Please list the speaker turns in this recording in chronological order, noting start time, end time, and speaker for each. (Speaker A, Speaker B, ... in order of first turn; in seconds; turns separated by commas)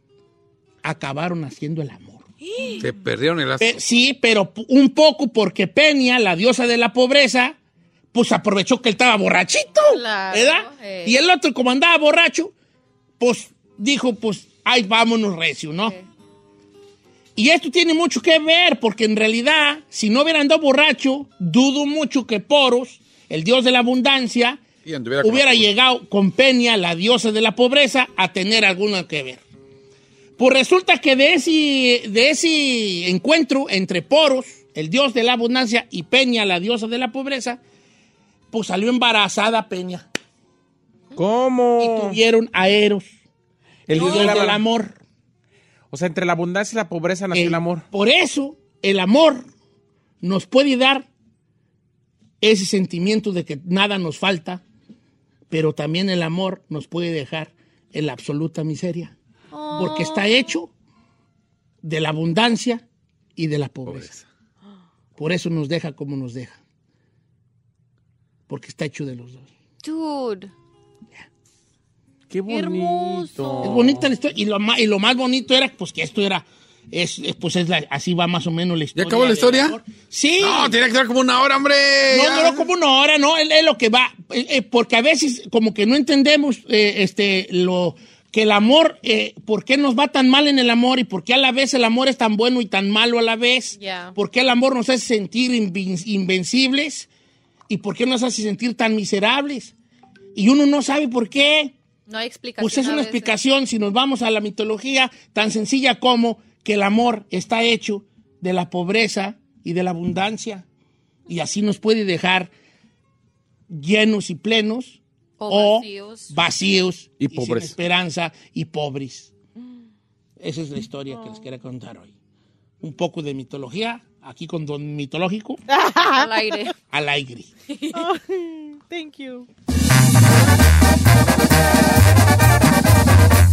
Speaker A: 0.8-2.3, Speaker B: 2.5-2.8, Speaker C: 2.8-3.8, Speaker A: 3.6-7.6, Speaker A: 8.1-12.5, Speaker B: 9.9-11.2, Speaker A: 13.2-15.9, Speaker A: 17.4-24.6, Speaker C: 24.9-25.7, Speaker A: 25.2-29.4, Speaker A: 30.4-37.6, Speaker A: 38.5-40.1, Speaker D: 41.1-42.2, Speaker A: 41.8-43.1, Speaker D: 43.9-44.6, Speaker A: 43.9-45.0, Speaker B: 44.0-44.4, Speaker D: 45.9-47.8, Speaker A: 47.3-49.5, Speaker A: 50.2-51.1, Speaker A: 52.4-54.6, Speaker A: 55.5-59.1, Speaker B: 59.5-60.5, Speaker A: 59.7-60.7, Speaker A: 61.8-62.8, Speaker A: 63.4-64.1, Speaker C: 63.9-64.3, Speaker A: 65.2-66.6, Speaker A: 68.5-69.5, Speaker B: 69.8-70.5, Speaker D: 72.3-74.0, Speaker B: 72.5-73.8, Speaker A: 73.6-80.8, Speaker C: 79.0-79.8, Speaker C: 80.4-82.7, Speaker A: 82.1-97.1, Speaker B: 93.8-94.2, Speaker A: 97.7-99.7, Speaker A: 100.3-101.7, Speaker B: 102.1-103.3, Speaker A: 102.6-110.7, Speaker A: 111.3-112.5, Speaker A: 113.7-119.3, Speaker B: 115.4-116.3, Speaker D: 117.2-117.8, Speaker A: 120.4-122.1, Speaker A: 122.8-125.6, Speaker E: 125.7-126.7, Speaker B: 126.0-126.7, Speaker A: 126.9-127.5, Speaker B: 127.7-128.1, Speaker E: 127.9-129.5